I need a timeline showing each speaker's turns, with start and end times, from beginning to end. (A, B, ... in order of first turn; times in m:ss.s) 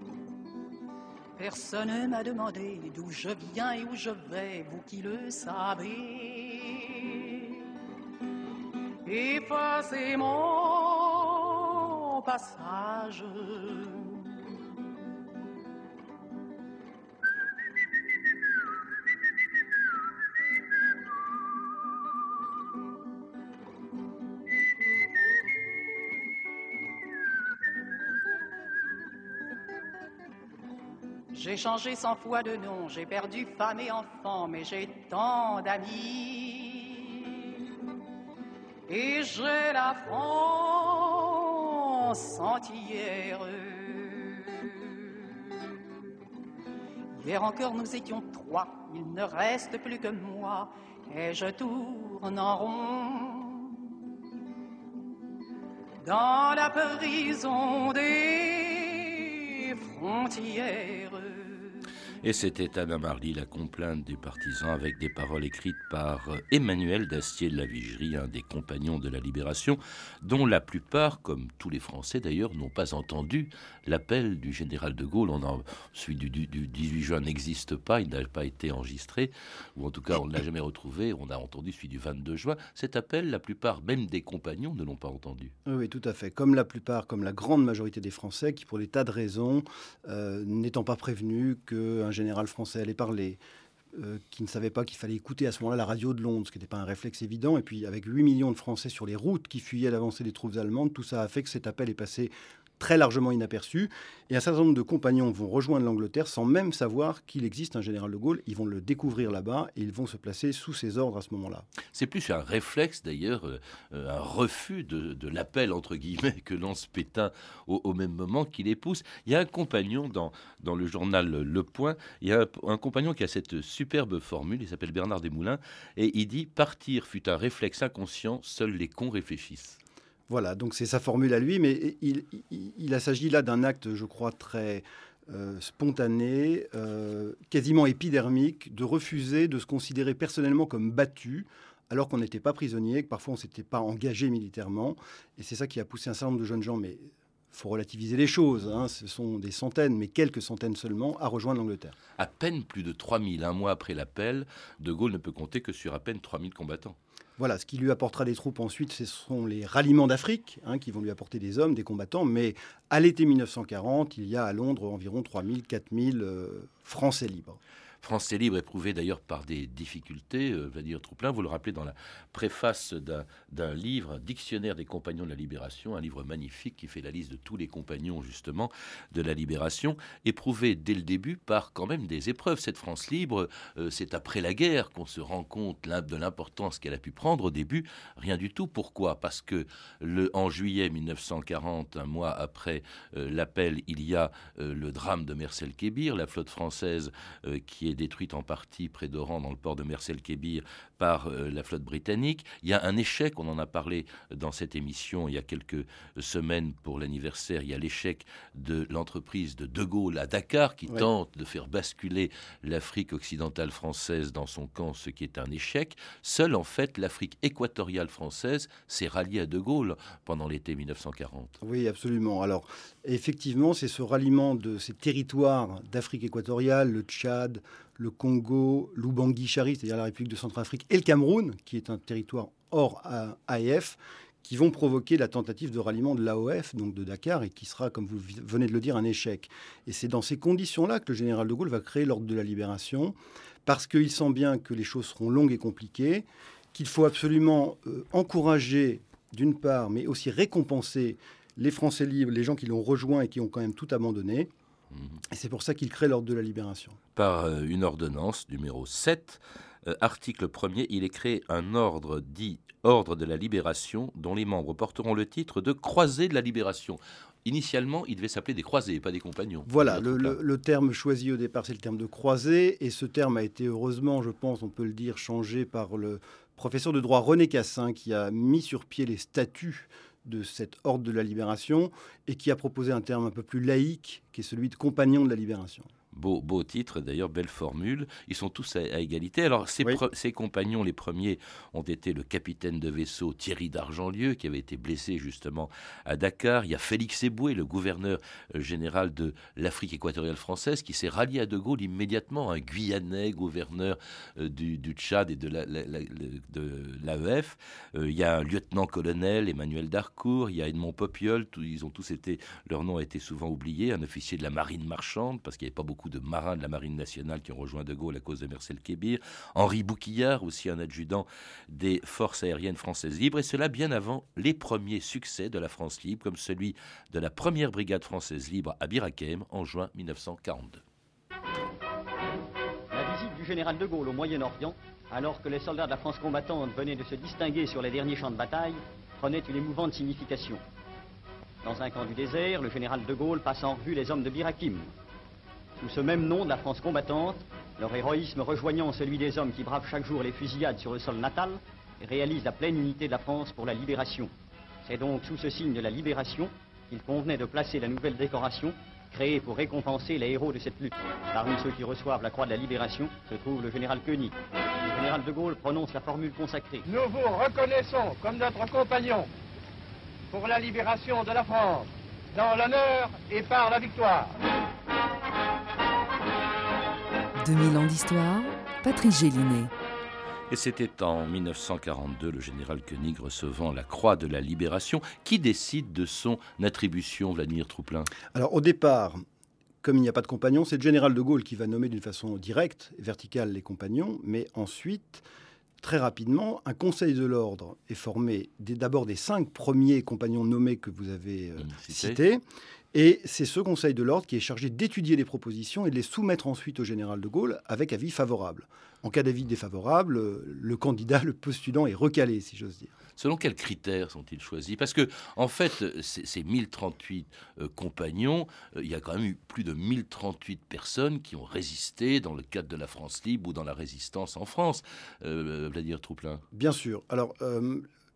0:01.4-0:07.6 A
0:09.0-0:14.3 A
0:31.3-0:37.6 A
0:38.9-0:45.6 A
0:47.2-0:53.9 A
0:56.0-1:01.8 A
1:02.2-1:25.5 B
1:25.7-1:33.4 C
1:33.9-1:51.7 C
1:51.9-2:09.8 B
2:10.3-2:32.0 C
2:32.2-2:37.0 B
2:37.4-2:47.6 C
2:48.0-3:41.6 B
3:41.6-4:03.2 C
4:03.7-4:14.5 C
4:15.3-4:17.0 C
4:17.2-4:30.4 B
4:29.7-4:45.9 C
4:46.1-5:30.8 B
5:32.9-5:40.6 D
5:41.6-5:44.9 D
5:45.8-5:54.3 D
5:54.8-6:04.4 D
6:04.9-6:06.9 D
6:06.9-6:09.3 E
6:10.3-6:14.4 E
6:17.4-6:19.7 F
6:20.5-6:28.1 B
6:28.3-6:29.2 C
6:29.8-6:35.2 C
6:35.8-6:42.4 C
6:41.6-6:42.2 B
6:42.9-6:52.9 C
6:53.2-7:06.4 B
7:06.5-7:07.9 C